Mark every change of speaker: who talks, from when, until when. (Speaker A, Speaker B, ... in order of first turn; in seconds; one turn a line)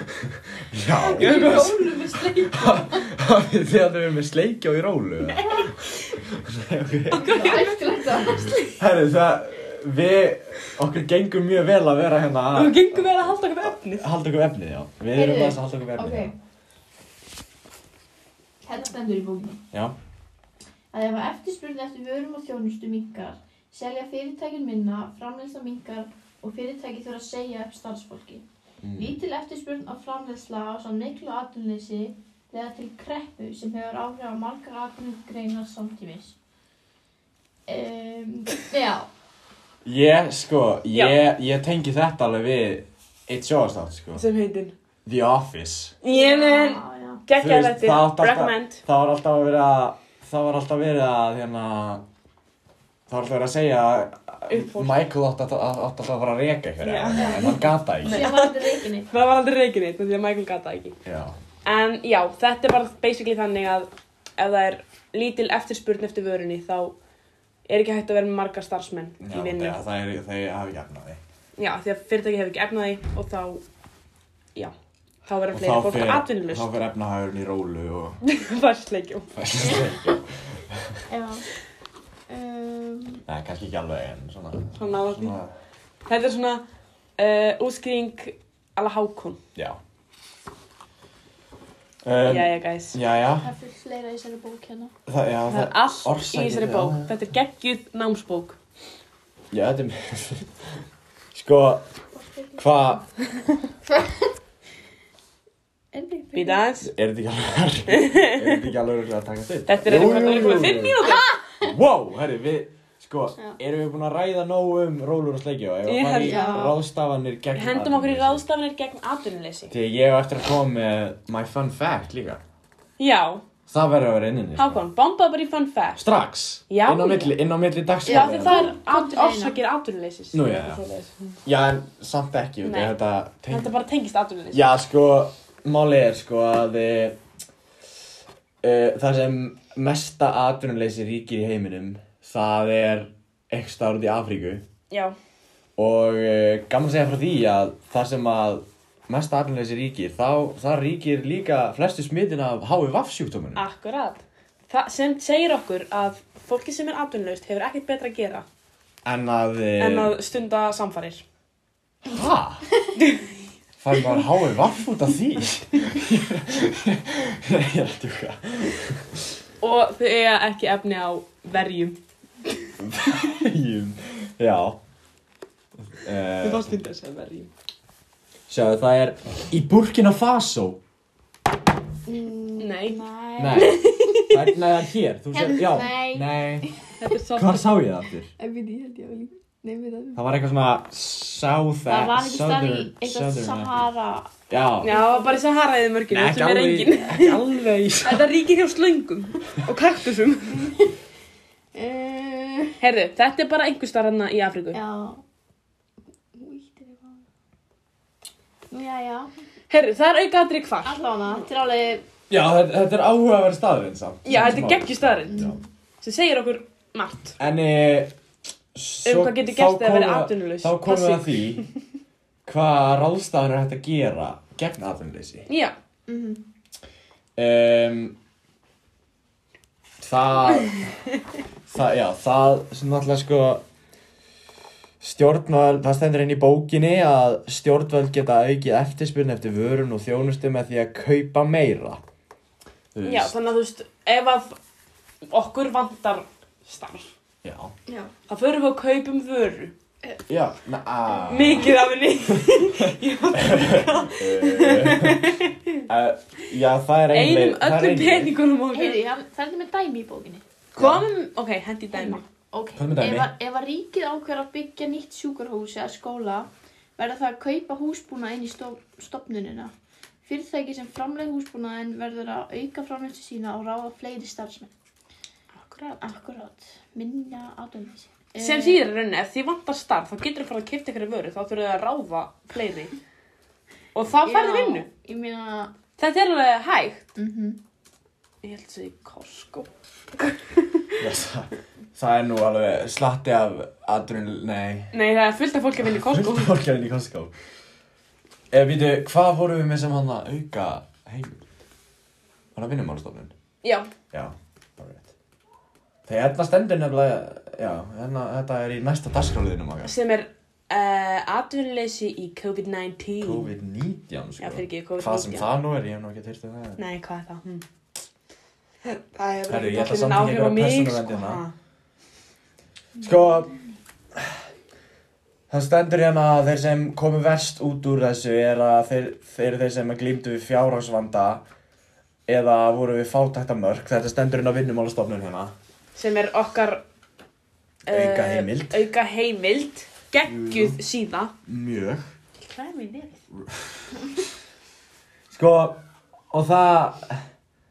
Speaker A: 0.3-1.7
Speaker B: 0.9-3.1
Speaker C: 1.2-2.0
Speaker A: 2.5-7.5
Speaker C: 5.3-5.6
Speaker B: 5.4-5.7
Speaker C: 7.1-8.7
Speaker B: 7.2-8.6
Speaker A: 8.8-16.3
Speaker C: 12.5-14.1
Speaker B: 15.1-16.3
Speaker B: 18.6-19.6
Speaker B: 20.9-28.4
Speaker A: 28.8-29.2
Speaker B: 29.0-36.4
Speaker B: 37.7-39.1
Speaker A: 39.8-44.2
Speaker C: 40.9-41.2
Speaker C: 44.1-44.7
Speaker A: 45.0-46.0
Speaker C: 46.0-48.8
Speaker B: 46.1-47.2
Speaker A: 47.4-52.0
Speaker A: 53.1-58.3
Speaker C: 54.5-55.1
Speaker C: 56.8-60.9
Speaker B: 57.1-59.1
Speaker A: 61.0-61.4
Speaker C: 61.6-66.9
Speaker C: 67.7-69.8
Speaker A: 69.2-71.2
Speaker C: 71.6-73.6
Speaker C: 75.2-76.7
Speaker A: 75.5-78.2
Speaker C: 78.2-79.3
Speaker A: 79.3-81.0
Speaker B: 79.6-80.2
Speaker B: 81.1-81.5
Speaker B: 82.3-83.2
Speaker A: 83.3-85.5
Speaker C: 84.8-85.3
Speaker C: 86.0-86.6
Speaker C: 87.2-89.4
Speaker A: 92.0-93.5
Speaker C: 92.2-93.0
Speaker B: 93.4-94.9
Speaker A: 95.1-97.2
Speaker C: 95.5-98.6
Speaker A: 99.5-100.6
Speaker A: 101.3-101.8
Speaker B: 102.2-102.7
Speaker A: 102.6-103.0
Speaker B: 103.9-104.2
Speaker B: 105.9-106.6
Speaker C: 106.3-106.9
Speaker A: 106.8-111.0
Speaker C: 107.9-108.7
Speaker C: 109.7-111.3
Speaker B: 110.9-111.7
Speaker A: 111.6-118.4
Speaker C: 115.8-116.7
Speaker B: 116.2-116.8
Speaker C: 117.5-119.7
Speaker A: 119.7-122.4
Speaker C: 123.0-123.4
Speaker A: 123.7-124.8
Speaker C: 124.6-126.1
Speaker A: 126.0-128.7
Speaker C: 126.7-127.3
Speaker B: 128.0-129.6
Speaker C: 128.1-131.3
Speaker A: 130.3-130.8
Speaker A: 131.4-133.7
Speaker C: 132.6-132.9
Speaker C: 133.5-134.6
Speaker A: 134.5-137.2
Speaker A: 138.6-144.6
Speaker C: 144.9-145.1
Speaker A: 145.8-153.6
Speaker C: 153.6-158.4
Speaker A: 159.0-160.1
Speaker C: 159.8-161.2
Speaker A: 162.1-162.7
Speaker C: 163.0-163.3
Speaker A: 163.8-169.2
Speaker C: 169.6-172.0
Speaker A: 172.8-174.8
Speaker A: 176.0-176.8
Speaker C: 176.4-177.5
Speaker A: 178.5-180.8
Speaker B: 182.1-183.8
Speaker C: 182.6-183.0
Speaker A: 183.4-186.7
Speaker C: 183.6-184.6
Speaker B: 185.3-186.9
Speaker C: 187.0-187.7
Speaker A: 187.3-188.3
Speaker B: 188.4-190.2
Speaker A: 190.1-193.8
Speaker B: 191.8-194.3
Speaker A: 194.5-194.9
Speaker C: 194.8-200.7
Speaker B: 194.9-195.4
Speaker A: 196.1-198.3
Speaker B: 200.5-200.9
Speaker B: 201.7-202.7
Speaker C: 202.8-204.8
Speaker B: 204.7-205.2
Speaker B: 206.3-207.2
Speaker B: 208.7-209.3
Speaker C: 209.7-211.0
Speaker B: 210.8-212.0
Speaker A: 212.3-215.6
Speaker C: 214.2-215.4
Speaker B: 215.3-215.6
Speaker C: 216.0-217.4
Speaker A: 217.4-218.1
Speaker A: 218.7-221.7
Speaker C: 219.1-221.7
Speaker A: 222.4-225.5
Speaker C: 225.5-225.7
Speaker B: 226.1-226.4
Speaker A: 227.4-228.2
Speaker A: 230.0-230.9
Speaker A: 231.7-233.6
Speaker A: 235.0-242.0
Speaker A: 242.9-243.3
Speaker C: 243.0-244.6
Speaker C: 245.3-247.1
Speaker A: 247.4-247.7
Speaker C: 248.3-249.7
Speaker A: 250.3-251.8
Speaker C: 251.3-255.8
Speaker A: 252.4-258.3
Speaker C: 257.1-259.0
Speaker B: 258.7-260.4
Speaker C: 260.7-262.2
Speaker A: 260.8-261.1
Speaker B: 261.9-269.7
Speaker A: 262.8-263.3
Speaker B: 270.2-274.7
Speaker C: 275.5-276.1
Speaker B: 276.0-278.8
Speaker C: 278.4-282.9
Speaker C: 283.9-284.9
Speaker B: 284.2-285.7
Speaker C: 286.0-287.1
Speaker B: 287.1-287.6
Speaker C: 288.4-291.0
Speaker A: 291.0-294.9
Speaker C: 294.9-296.6
Speaker A: 295.8-297.3
Speaker A: 298.5-301.4
Speaker A: 302.5-303.3
Speaker C: 303.6-303.9
Speaker A: 304.1-305.1
Speaker A: 306.1-309.9
Speaker C: 309.8-313.5
Speaker A: 313.2-316.8
Speaker C: 314.4-315.5
Speaker C: 316.8-317.6
Speaker C: 318.8-321.5
Speaker A: 319.5-321.4
Speaker B: 323.0-323.6
Speaker A: 323.0-323.5
Speaker A: 325.5-331.4
Speaker A: 332.3-335.5
Speaker C: 335.9-336.8
Speaker C: 337.9-341.3
Speaker A: 337.9-338.8
Speaker A: 340.2-340.8
Speaker A: 341.4-342.1
Speaker C: 342.5-343.2
Speaker A: 343.4-344.0
Speaker A: 345.3-347.2